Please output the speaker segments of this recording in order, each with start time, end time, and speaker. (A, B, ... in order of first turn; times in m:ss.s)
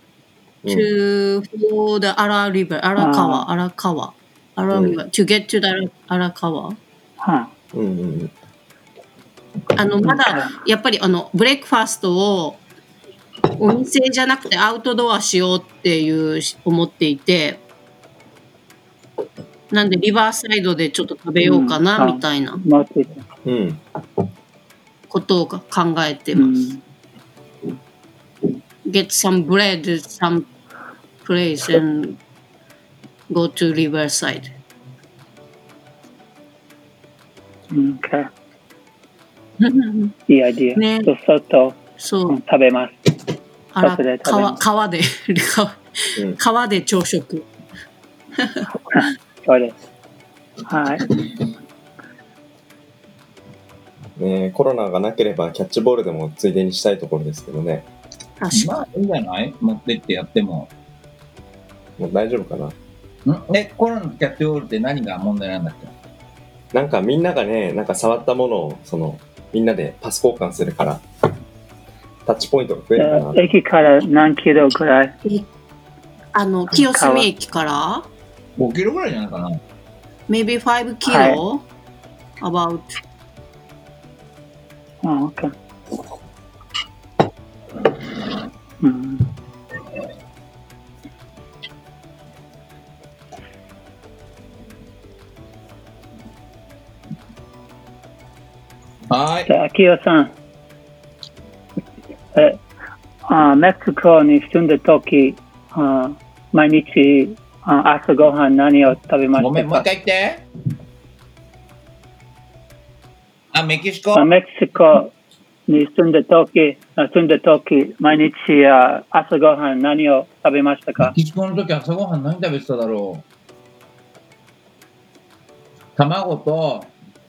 0:00.7-0:06.8 A
0:03.0-0:03.5 B
0:04.7-0:05.0 C
0:07.2-0:07.5 B
0:07.7-0:08.3 C
0:09.8-0:12.6 A
0:10.0-0:10.5 B
0:13.6-0:17.6 A
0:19.7-0:22.6 A
0:21.4-0:23.2 B
0:23.4-0:23.8 C
0:25.1-0:26.6 A
0:26.3-0:26.8 B
0:28.8-0:30.5 A
0:31.2-0:32.2 A
0:33.3-0:34.5 A
0:37.7-0:38.3 B
0:39.6-0:40.1 A
0:40.3-0:43.0 B
0:40.8-0:41.1 A
0:42.0-0:42.4 A
0:43.7-0:47.4 A
0:43.8-0:44.6 B
0:48.4-0:48.7 A
0:48.9-0:49.7 B
0:50.7-0:51.0 B
0:54.2-0:57.9 C
0:58.4-0:58.8 A
0:58.5-1:00.7 D
1:02.0-1:02.7 C
1:03.2-1:05.9 D
1:06.7-1:11.0 C
1:12.2-1:13.4 C
1:13.0-1:15.1 B
1:16.3-1:18.1 A
1:16.8-1:17.3 B
1:18.6-1:19.6 D
1:20.3-1:21.6 A
1:21.0-1:21.4 B
1:22.4-1:23.0 A
1:25.0-1:25.5 B
1:28.8-1:29.2 B
1:39.1-1:39.5 D
1:39.5-1:40.3 B
1:42.3-1:42.6 B
1:43.3-1:49.8 B
1:49.4-1:50.5 D
1:53.5-1:54.3 D
1:54.1-1:55.1 B
1:55.7-2:01.1 B
2:01.0-2:03.2 D
2:06.0-2:06.9 D